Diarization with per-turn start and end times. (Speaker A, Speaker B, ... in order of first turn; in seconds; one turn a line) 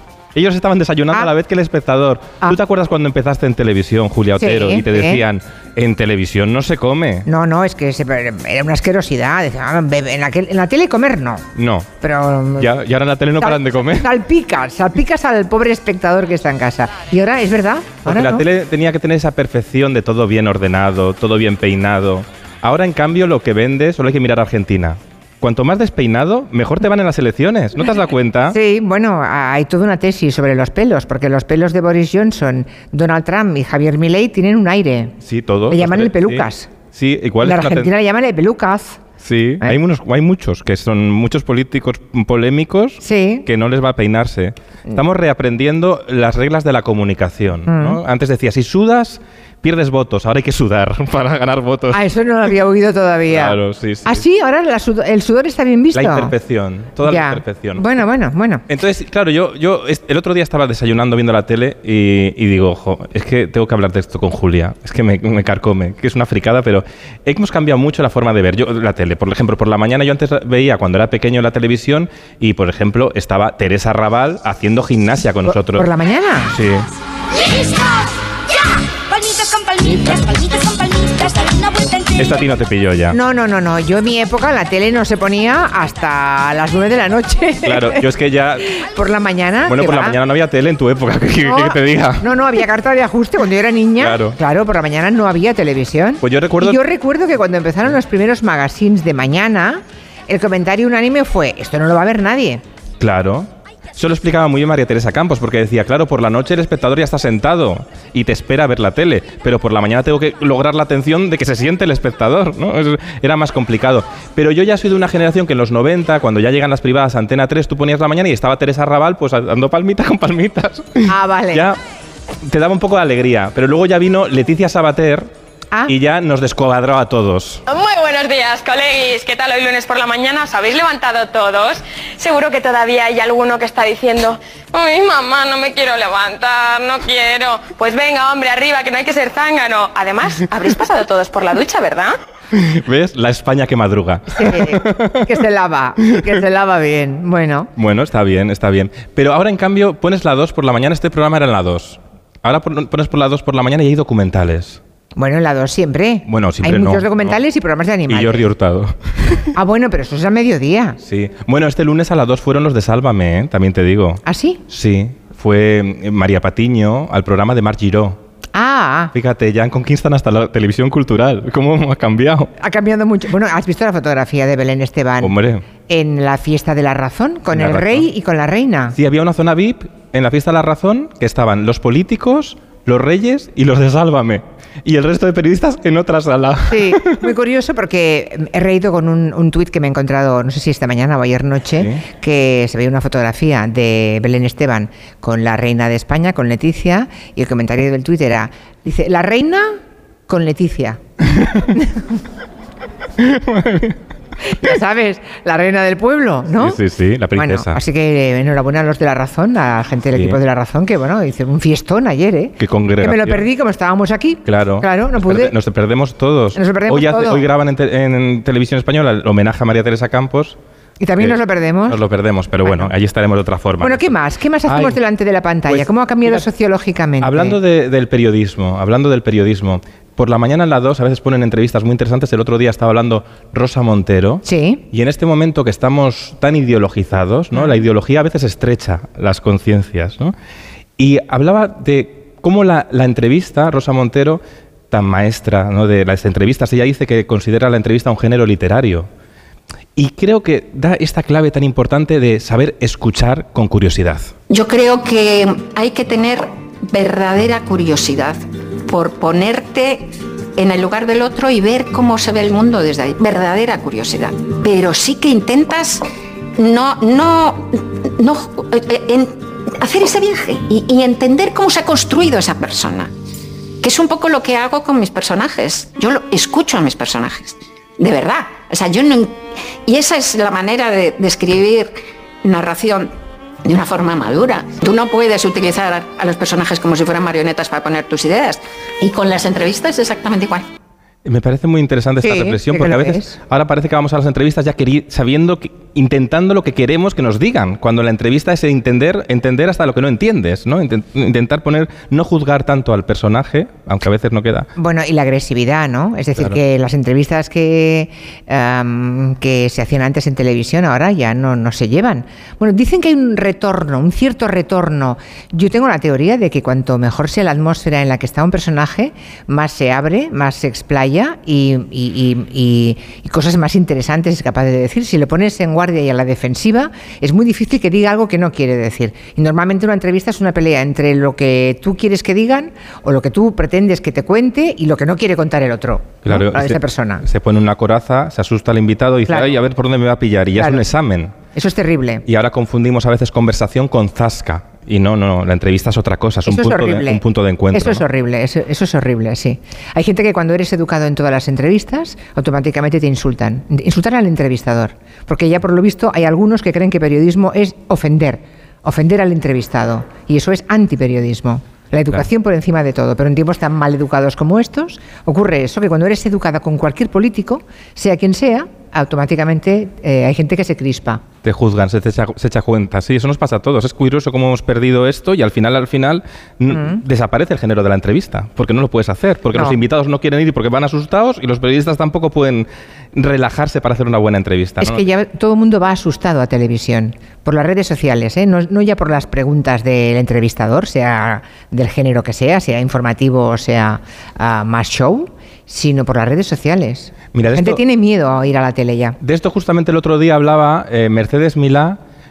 Speaker A: 0.3-7.3
Speaker B: 4.4-5.2
Speaker B: 7.3-11.4
Speaker A: 11.5-11.9
Speaker B: 12.0-12.7
Speaker A: 12.6-14.1
Speaker B: 13.4-18.4
Speaker A: 18.1-28.6
Speaker B: 28.5-35.1
Speaker A: 35.2-37.9
Speaker B: 35.7-36.7
Speaker B: 37.4-39.0
Speaker A: 39.2-52.0
Speaker B: 43.0-43.5
Speaker B: 47.7-48.0
Speaker B: 51.9-56.3
Speaker A: 53.3-54.2
Speaker A: 55.9-57.9
Speaker B: 57.0-58.6
Speaker A: 58.7-75.9
Speaker B: 75.5-76.5
Speaker A: 76.5-76.9
Speaker C: 77.4-78.0
Speaker C: 79.1-82.1
Speaker A: 82.2-83.2
Speaker B: 83.1-88.1
Speaker A: 87.6-88.8
Speaker B: 88.8-90.2
Speaker A: 89.7-92.3
Speaker B: 91.4-102.6
Speaker A: 94.0-94.4
Speaker A: 96.2-96.8
Speaker A: 103.0-121.8
Speaker B: 121.1-121.7
Speaker A: 122.4-125.3
Speaker A: 125.9-127.6
Speaker D: 127.7-142.2
Speaker A: 142.5-145.3
Speaker B: 144.3-147.7
Speaker A: 147.8-154.8
Speaker B: 155.2-158.4
Speaker A: 156.2-157.4
Speaker A: 158.1-159.5
Speaker B: 159.5-161.0
Speaker A: 161.0-168.2
Speaker B: 164.2-164.6
Speaker B: 168.5-169.1
Speaker A: 169.1-172.5
Speaker B: 172.6-175.3
Speaker A: 175.2-175.7
Speaker B: 175.9-178.9
Speaker A: 177.5-178.1
Speaker A: 178.9-187.2
Speaker B: 186.7-199.7
Speaker B: 200.3-201.0
Speaker B: 201.7-202.1
Speaker A: 203.2-203.9
Speaker B: 204.5-206.8
Speaker A: 206.6-207.8
Speaker B: 207.3-215.5
Speaker A: 210.1-210.4
Speaker A: 212.6-213.4
Speaker A: 214.4-220.6
Speaker B: 216.5-217.4
Speaker B: 221.0-222.0
Speaker A: 221.2-224.1
Speaker B: 222.6-222.9
Speaker B: 223.8-227.6
Speaker A: 224.7-225.0
Speaker A: 225.7-226.4
Speaker A: 227.2-240.3
Speaker B: 234.4-234.8
Speaker B: 237.5-237.8
Speaker A: 241.0-249.1
Speaker A: 249.9-254.3
Speaker E: 254.5-266.0
Speaker E: 266.6-273.1
Speaker E: 273.8-283.1
Speaker E: 283.6-290.6
Speaker A: 291.2-304.7
Speaker B: 292.2-293.4
Speaker B: 304.8-337.2
Speaker A: 336.2-341.3
Speaker B: 339.3-339.6
Speaker B: 340.5-340.9
Speaker B: 341.5-342.2
Speaker A: 342.2-348.0
Speaker B: 346.4-371.2
Speaker A: 371.4-385.0
Speaker B: 376.7-377.0
Speaker B: 379.5-379.8
Speaker B: 384.8-399.2
Speaker A: 397.3-397.8
Speaker A: 399.2-402.0